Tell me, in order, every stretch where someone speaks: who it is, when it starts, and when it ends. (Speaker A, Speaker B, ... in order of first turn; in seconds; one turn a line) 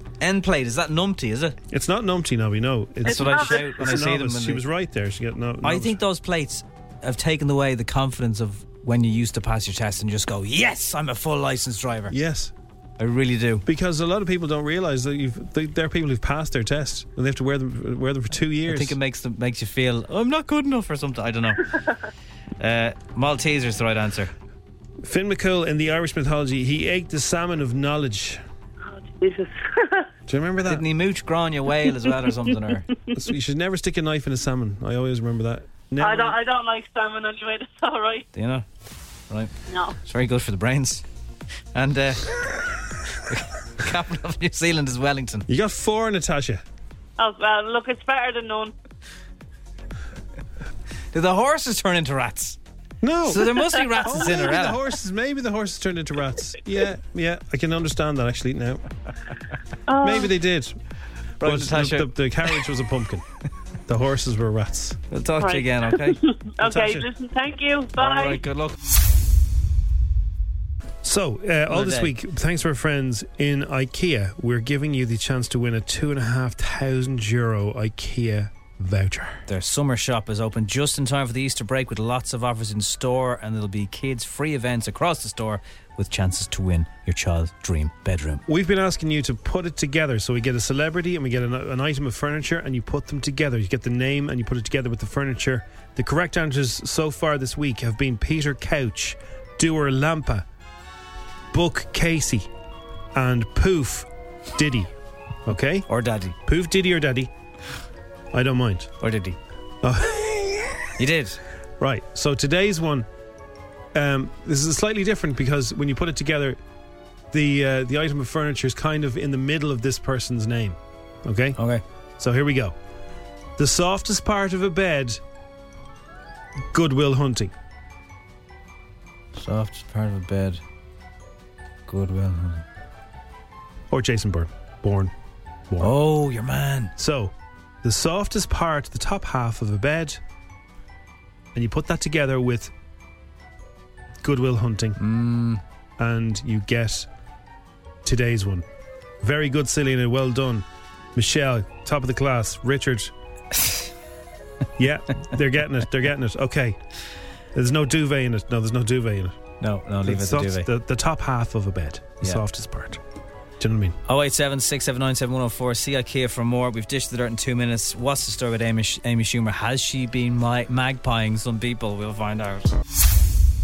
Speaker A: 0.2-1.6
Speaker B: 1.7-6.0
Speaker C: 3.0-3.7
Speaker A: 3.0-4.6
Speaker A: 5.6-12.2
Speaker B: 12.1-12.5
Speaker A: 13.0-13.7
Speaker B: 13.7-19.0
Speaker A: 18.7-21.6
Speaker A: 22.6-24.3
Speaker B: 25.0-28.4
Speaker C: 28.9-30.1
Speaker B: 30.3-30.9
Speaker A: 30.7-32.9
Speaker B: 33.1-36.4
Speaker C: 36.0-38.3
Speaker A: 38.3-38.6
Speaker C: 39.7-40.0
Speaker A: 40.0-41.0
Speaker A: 41.8-42.3
Speaker A: 43.3-45.5
Speaker B: 45.5-46.6
Speaker C: 47.2-48.7
Speaker A: 51.1-52.6
Speaker B: 53.0-58.8
Speaker A: 53.3-54.8
Speaker C: 59.9-60.3
Speaker B: 60.0-60.8
Speaker A: 61.4-62.1
Speaker B: 61.4-63.2
Speaker B: 63.9-65.0
Speaker A: 65.1-66.2
Speaker C: 65.4-68.4
Speaker B: 66.6-67.1
Speaker A: 68.0-68.8
Speaker B: 71.0-79.4
Speaker A: 71.7-72.1
Speaker A: 79.5-88.4
Speaker B: 88.5-100.5
Speaker B: 101.5-102.5
Speaker B: 103.1-104.9
Speaker B: 105.5-105.9
Speaker A: 105.9-106.4
Speaker B: 106.5-107.3
Speaker B: 108.3-108.9
Speaker A: 109.0-109.4
Speaker B: 109.8-110.7
Speaker A: 111.0-111.4
Speaker B: 111.8-113.1
Speaker B: 113.9-116.6
Speaker B: 117.3-121.6
Speaker A: 121.6-121.8
Speaker B: 122.2-122.8
Speaker B: 123.6-125.2
Speaker B: 126.7-127.5
Speaker A: 129.3-130.6
Speaker A: 131.9-132.6
Speaker B: 133.9-135.1
Speaker B: 135.7-136.0
Speaker A: 135.8-136.9
Speaker B: 137.0-140.2
Speaker B: 141.5-142.7
Speaker B: 144.2-145.0
Speaker A: 145.0-145.6
Speaker B: 146.0-147.1
Speaker B: 148.0-148.7
Speaker B: 149.2-153.1
Speaker B: 154.8-156.8
Speaker B: 157.5-159.4
Speaker A: 159.6-160.7
Speaker B: 160.0-163.0
Speaker B: 163.6-164.0
Speaker A: 164.1-172.7